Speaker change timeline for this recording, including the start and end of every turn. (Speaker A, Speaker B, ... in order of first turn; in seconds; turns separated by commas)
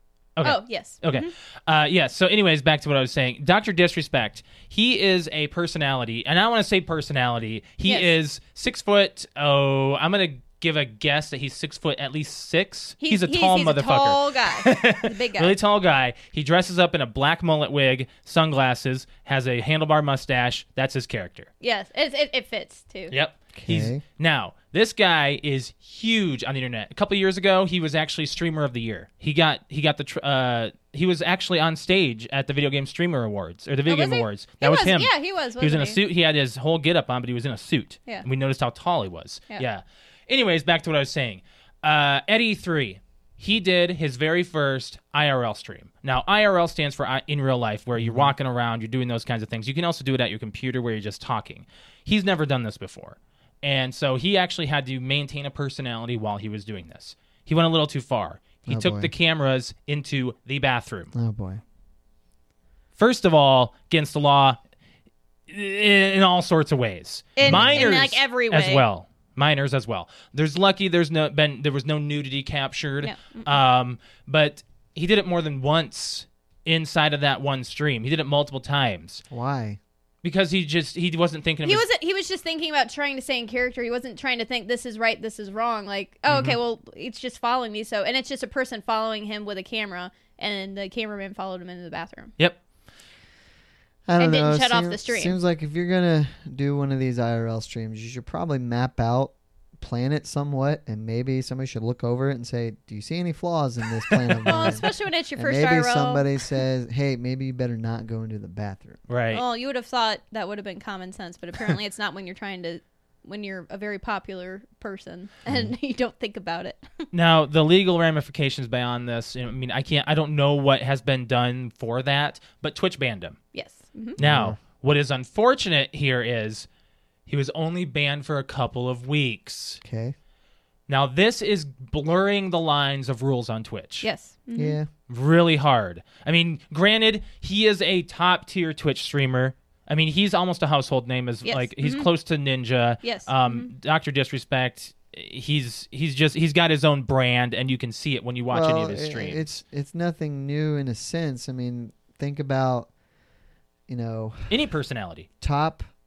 Speaker A: 0.3-21.5, Speaker B: 0.4-1.3, Speaker B: 7.8-8.1, Speaker B: 13.0-15.5, Speaker B: 21.6-23.1, Speaker A: 23.1-61.1, Speaker C: 23.5-24.0, Speaker B: 33.9-36.0, Speaker C: 48.0-48.3, Speaker C: 58.7-59.1, Speaker C: 61.1-61.6, Speaker A: 63.0-64.6, Speaker A: 65.5-79.2, Speaker B: 67.3-68.8, Speaker C: 67.4-68.0, Speaker B: 73.0-73.6, Speaker C: 79.3-79.8, Speaker A: 80.2-81.8, Speaker B: 81.6-92.3, Speaker A: 86.3-86.6, Speaker C: 94.1-109.0, Speaker B: 94.2-95.3, Speaker B: 104.4-106.3, Speaker A: 104.5-104.7, Speaker A: 109.1-109.4, Speaker B: 109.3-117.1, Speaker A: 117.1-123.4, Speaker B: 123.5-124.2, Speaker C: 124.2-124.6, Speaker A: 124.2-126.7, Speaker A: 127.3-129.8, Speaker C: 129.8-130.1, Speaker A: 130.9-134.1, Speaker B: 134.0-134.8, Speaker C: 134.5-134.9, Speaker A: 135.1-149.4, Speaker B: 141.4-142.1, Speaker B: 143.0-143.7, Speaker C: 148.5-152.9, Speaker C: 153.9-154.6, Speaker A: 154.5-155.3, Speaker C: 155.4-155.8